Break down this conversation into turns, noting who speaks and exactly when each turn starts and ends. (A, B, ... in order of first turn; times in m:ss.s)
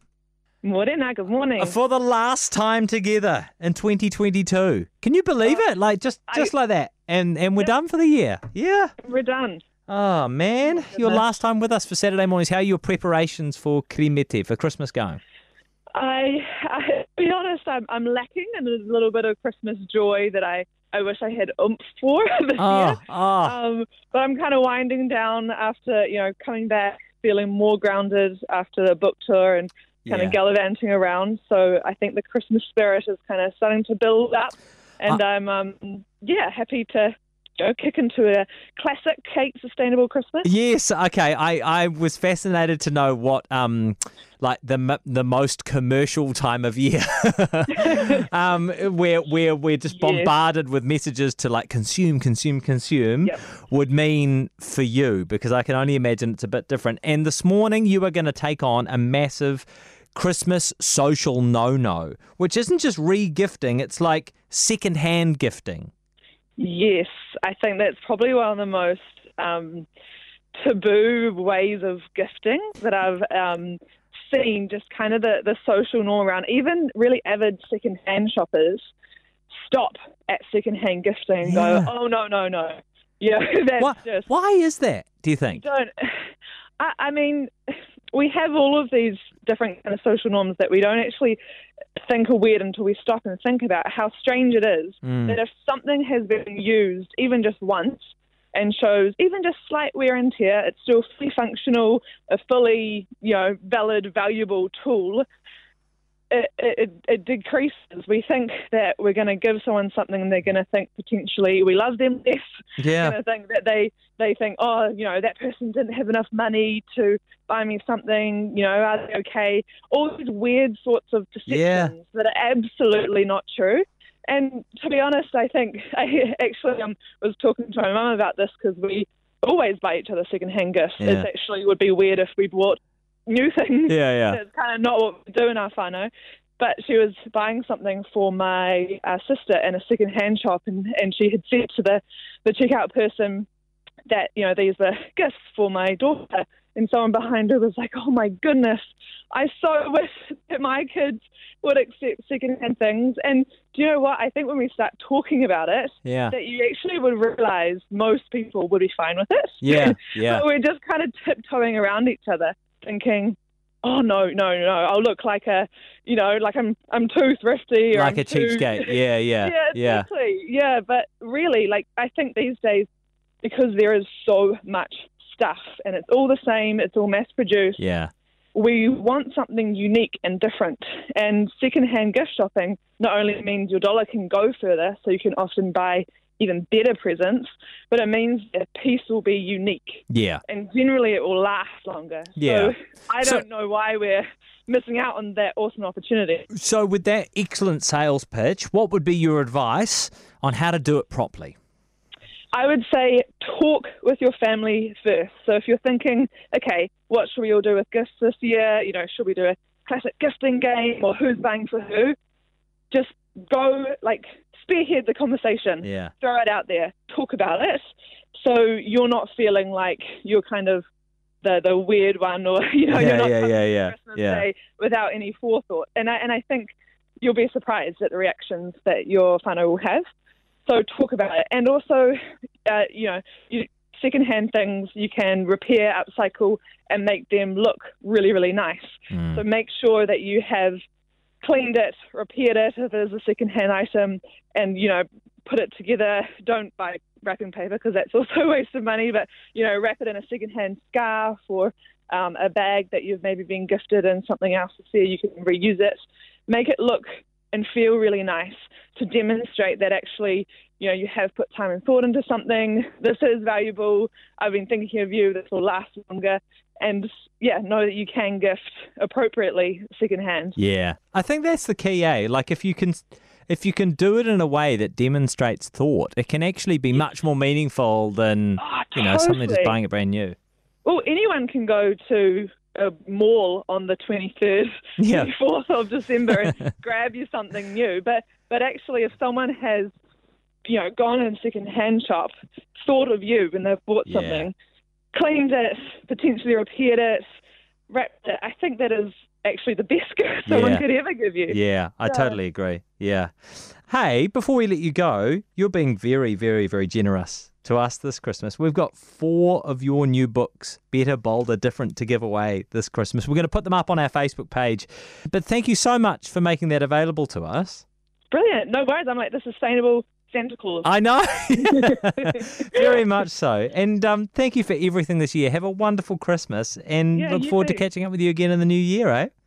0:00.6-0:01.7 A
0:01.6-0:08.9 B
0:09.0-0:09.6 A
0:09.9-0:15.2 B
0:10.7-0:11.2 A
0:15.9-0:40.5 A
0:22.6-0:23.6 B
0:30.0-0:30.4 B
0:40.4-1:05.9 B
0:47.7-0:48.2 A
0:49.9-0:50.3 A
1:06.6-1:09.9 A
1:10.6-1:18.9 A
1:19.6-1:24.3 A
1:21.4-1:21.9 B
1:23.8-1:25.6 B
1:25.6-1:26.3 A
1:26.8-1:31.4 A
1:32.1-1:45.2 A
1:35.0-1:35.4 B
1:46.3-1:52.4 A
1:52.8-1:53.2 B
1:53.0-2:23.5 A
2:01.5-2:01.9 B
2:11.0-2:11.3 B
2:13.9-2:14.4 B
2:24.1-2:52.9 A
2:36.0-2:36.3 B
2:39.6-2:40.4 B
2:47.9-2:50.0 B
2:53.4-2:57.8 A
2:57.8-2:58.1 B
2:58.5-3:16.5 A
3:10.1-3:10.4 B
3:12.4-3:13.4 B
3:16.5-3:21.6 B
3:22.5-3:32.1 A
3:32.9-3:37.8 A
3:35.8-3:36.1 B
3:38.4-3:40.8 A
3:41.4-3:50.0 A
3:42.9-3:44.4 B
3:50.6-4:00.8 A
3:59.1-3:59.4 B
4:01.4-4:30.6 A
4:30.6-4:40.4 B
4:38.6-4:39.7 A
4:40.8-4:49.9 A
4:45.0-4:45.3 B
4:50.6-4:54.5 A
4:54.1-4:54.5 B
4:55.1-4:57.2 A
4:57.9-5:02.4 A
5:00.5-5:00.8 B
5:01.5-5:17.8 B
5:18.3-5:20.9 A
5:20.8-5:29.3 B
5:21.6-5:23.0 A
5:27.1-5:27.8 A